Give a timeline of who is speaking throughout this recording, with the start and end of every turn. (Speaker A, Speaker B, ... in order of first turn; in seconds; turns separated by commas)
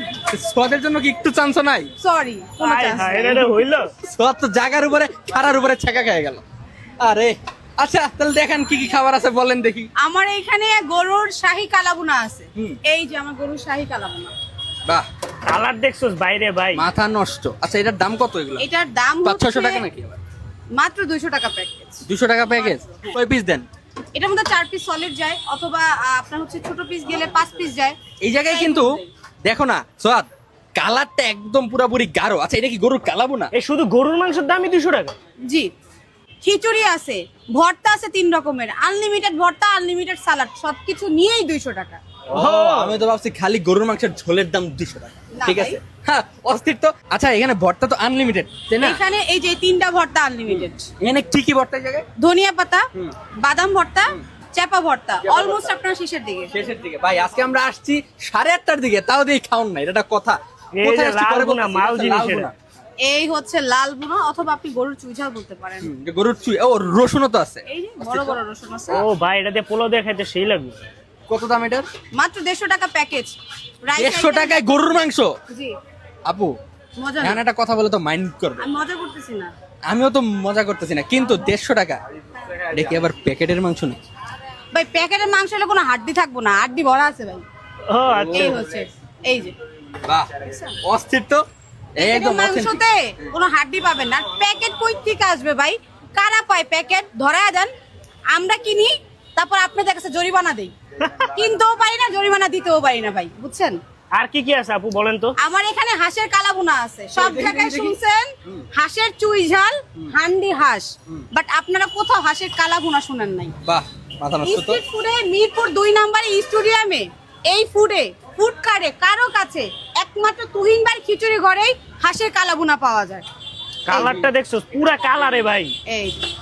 Speaker A: 0.2-1.9, Speaker B: 2.0-3.6, Speaker C: 2.6-3.9, Speaker A: 4.0-6.4, Speaker A: 7.0-9.9, Speaker B: 10.0-14.3, Speaker C: 15.5-16.8, Speaker A: 16.8-18.7, Speaker B: 18.6-19.9, Speaker A: 19.2-20.2, Speaker B: 20.8-22.1, Speaker A: 22.1-23.7, Speaker B: 22.6-23.2, Speaker B: 24.1-28.0, Speaker A: 28.2-28.8, Speaker B: 28.5-29.1, Speaker A: 29.4-33.5, Speaker C: 33.5-35.1, Speaker B: 36.4-42.0, Speaker A: 42.3-49.0, Speaker C: 42.4-43.0, Speaker B: 45.3-45.8, Speaker B: 48.8-50.9, Speaker A: 50.5-52.0, Speaker B: 52.2-52.9, Speaker B: 53.4-56.5, Speaker A: 55.2-55.7, Speaker A: 56.5-62.5, Speaker C: 60.8-62.5, Speaker B: 63.0-65.9, Speaker A: 65.8-68.4, Speaker B: 67.7-69.0, Speaker C: 68.9-70.8, Speaker A: 71.3-71.9, Speaker B: 72.2-74.6, Speaker A: 74.0-75.3, Speaker B: 75.5-75.8, Speaker A: 76.2-76.6, Speaker B: 77.0-77.4, Speaker A: 77.2-78.7, Speaker B: 78.6-79.5, Speaker A: 79.9-82.0, Speaker A: 82.7-84.0, Speaker B: 84.7-87.4, Speaker C: 87.9-88.6, Speaker A: 88.2-88.6, Speaker B: 88.3-89.5, Speaker B: 90.5-90.8, Speaker A: 90.8-91.4, Speaker A: 92.0-92.8, Speaker B: 92.0-97.7, Speaker B: 98.3-103.8, Speaker C: 104.1-105.3, Speaker B: 105.4-113.5, Speaker A: 107.2-108.7, Speaker A: 113.6-114.8, Speaker B: 114.4-123.3, Speaker C: 123.9-125.8, Speaker B: 123.9-124.2, Speaker A: 123.9-124.3, Speaker B: 125.9-126.2